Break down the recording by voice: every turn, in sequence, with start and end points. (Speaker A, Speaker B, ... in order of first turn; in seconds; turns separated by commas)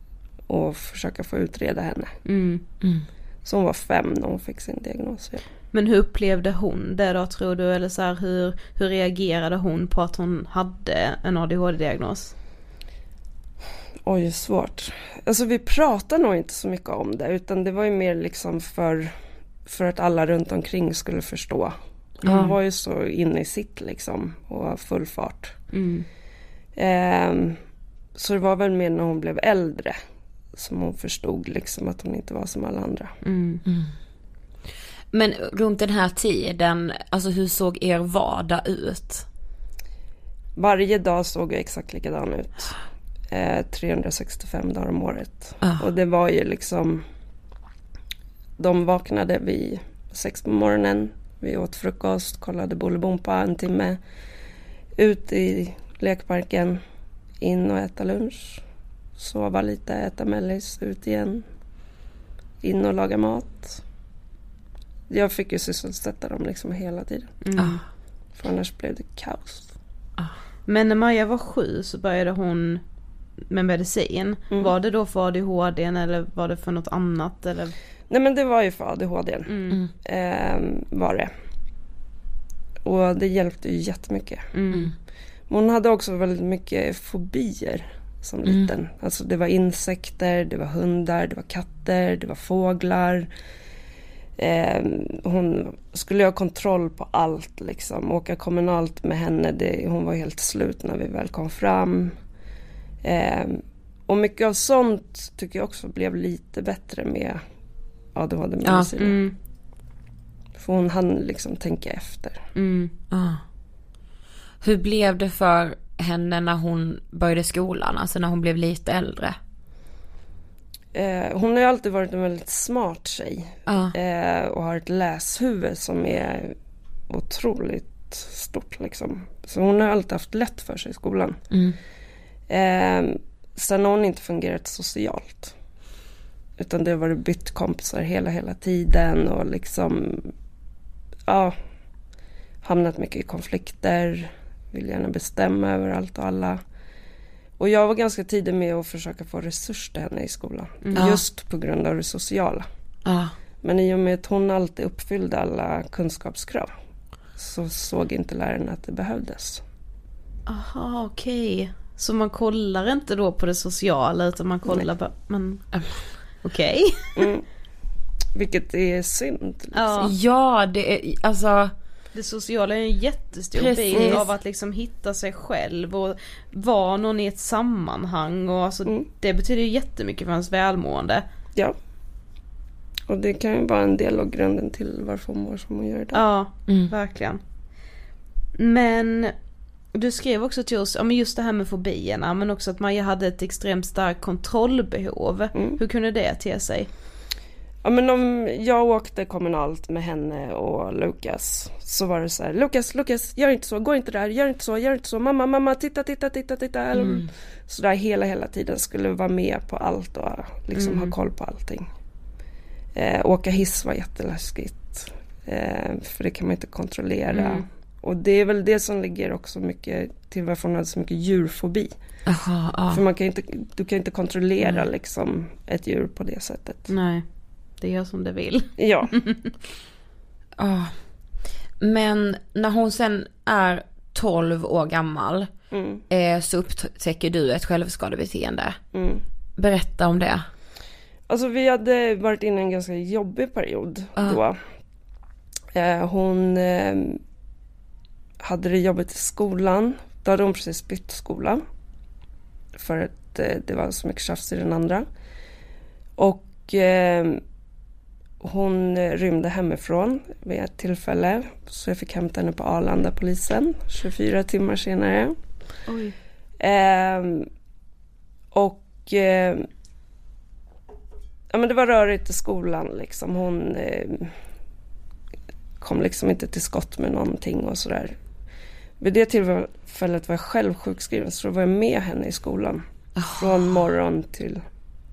Speaker A: 0.5-2.1, Speaker B: 2.2-2.6, Speaker C: 2.8-3.0, Speaker A: 3.4-5.4, Speaker B: 5.7-12.3, Speaker A: 14.0-19.1, Speaker A: 19.6-21.7, Speaker B: 22.2-22.5, Speaker A: 22.2-25.6, Speaker C: 22.3-22.5, Speaker B: 25.7-26.1, Speaker A: 26.8-27.6, Speaker A: 28.1-30.0, Speaker A: 30.5-33.1, Speaker B: 33.2-33.6, Speaker C: 33.6-33.9, Speaker C: 35.1-39.2, Speaker A: 40.6-42.8, Speaker A: 43.3-47.0, Speaker C: 45.6-45.9, Speaker A: 48.6-54.0, Speaker A: 55.0-56.8, Speaker A: 57.4-58.6, Speaker A: 59.2-61.5, Speaker A: 62.6-63.8, Speaker A: 65.1-67.3, Speaker B: 67.4-67.8, Speaker A: 68.3-69.7, Speaker B: 70.7-72.8, Speaker B: 73.5-77.7, Speaker A: 78.1-81.3, Speaker B: 79.5-79.8, Speaker A: 82.8-84.5, Speaker B: 84.5-84.9, Speaker A: 85.5-93.3, Speaker A: 94.4-102.1, Speaker A: 103.0-107.4, Speaker A: 108.1-109.2, Speaker C: 108.6-108.9, Speaker B: 109.0-109.3, Speaker A: 110.5-112.4, Speaker B: 112.5-112.9, Speaker C: 113.1-113.4, Speaker C: 114.6-119.3, Speaker A: 120.9-126.5, Speaker C: 123.7-123.9, Speaker A: 127.1-131.4, Speaker C: 131.5-131.8, Speaker A: 132.5-135.5, Speaker A: 136.6-140.3, Speaker A: 141.3-141.6, Speaker A: 142.6-146.6, Speaker A: 147.6-152.7, Speaker B: 150.8-151.2, Speaker C: 153.1-153.3, Speaker A: 153.6-156.7, Speaker A: 157.4-159.6, Speaker B: 160.5-165.7, Speaker B: 166.4-167.3, Speaker A: 167.2-167.4, Speaker A: 168.3-170.0, Speaker B: 169.7-170.1, Speaker C: 170.0-171.7, Speaker B: 172.1-181.2, Speaker C: 173.5-174.2, Speaker A: 173.9-174.2, Speaker A: 183.1-186.2, Speaker B: 186.1-187.4, Speaker C: 186.7-186.9, Speaker B: 188.6-189.3, Speaker B: 189.9-196.9, Speaker A: 195.5-195.8, Speaker A: 197.8-211.9, Speaker C: 206.9-207.3, Speaker B: 210.7-211.1, Speaker A: 212.9-221.9, Speaker B: 217.3-217.6, Speaker C: 222.2-223.0, Speaker A: 222.9-226.9, Speaker B: 226.9-227.2, Speaker B: 227.8-229.5, Speaker A: 228.8-229.1, Speaker C: 230.6-230.9, Speaker C: 231.8-235.5, Speaker A: 235.7-236.0, Speaker C: 236.1-238.8, Speaker A: 238.9-239.2, Speaker C: 239.6-240.4, Speaker A: 241.3-244.6, Speaker A: 245.7-247.2, Speaker A: 248.4-251.6, Speaker A: 252.7-255.0, Speaker A: 256.2-257.4, Speaker A: 258.4-265.4, Speaker B: 265.9-266.1, Speaker A: 266.6-267.5, Speaker A: 268.5-269.7, Speaker A: 271.5-274.3, Speaker A: 275.8-278.2, Speaker A: 279.0-282.8, Speaker C: 283.2-283.8, Speaker A: 283.3-284.6